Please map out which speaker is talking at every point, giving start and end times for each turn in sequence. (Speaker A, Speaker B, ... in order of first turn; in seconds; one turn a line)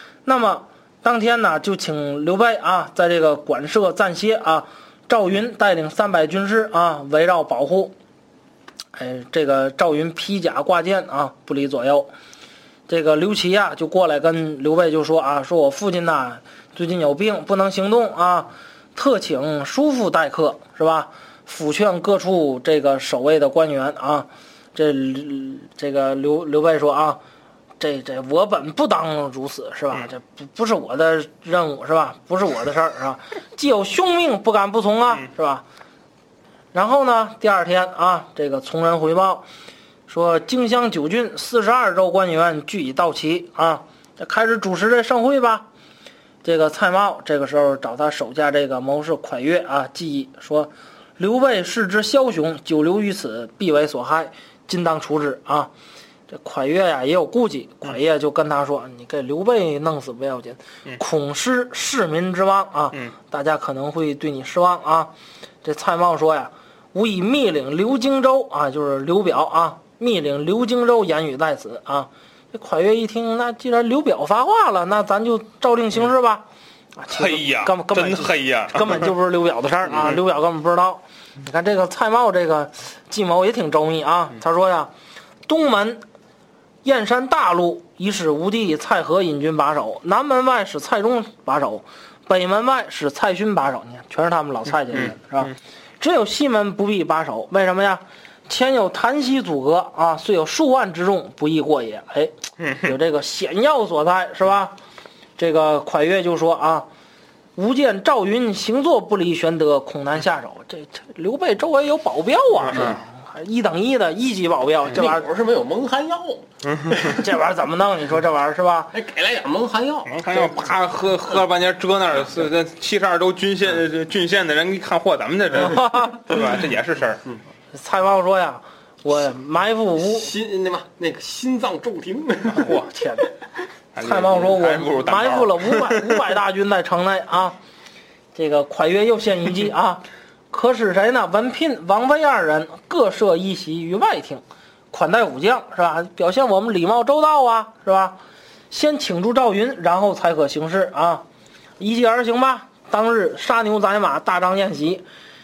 Speaker A: 0.2-7.9
Speaker A: 8.9-12.1
Speaker A: 12.9-27.2
Speaker A: 27.8-35.6
Speaker A: 36.7-39.4
Speaker A: 40.1-45.7
Speaker A: 46.4-55.7
Speaker A: 56.3-65.1
Speaker A: 65.6-76.4
Speaker A: 77.0-84.9
Speaker B: 77.1-79.1
Speaker A: 85.5-86.0
Speaker A: 86.8-104.8
Speaker B: 102.6-102.9
Speaker A: 105.4-106.9
Speaker A: 107.5-115.2
Speaker C: 114.9-116.5
Speaker A: 116.9-118.9
Speaker C: 118.9-120.6
Speaker B: 120.1-127.2
Speaker A: 125.6-126.2
Speaker A: 127.7-130.3
Speaker C: 130.0-132.7
Speaker B: 132.5-132.9
Speaker A: 132.9-133.3
Speaker B: 133.9-136.2
Speaker A: 134.0-137.6
Speaker A: 138.3-148.2
Speaker A: 148.7-151.2
Speaker A: 151.8-155.0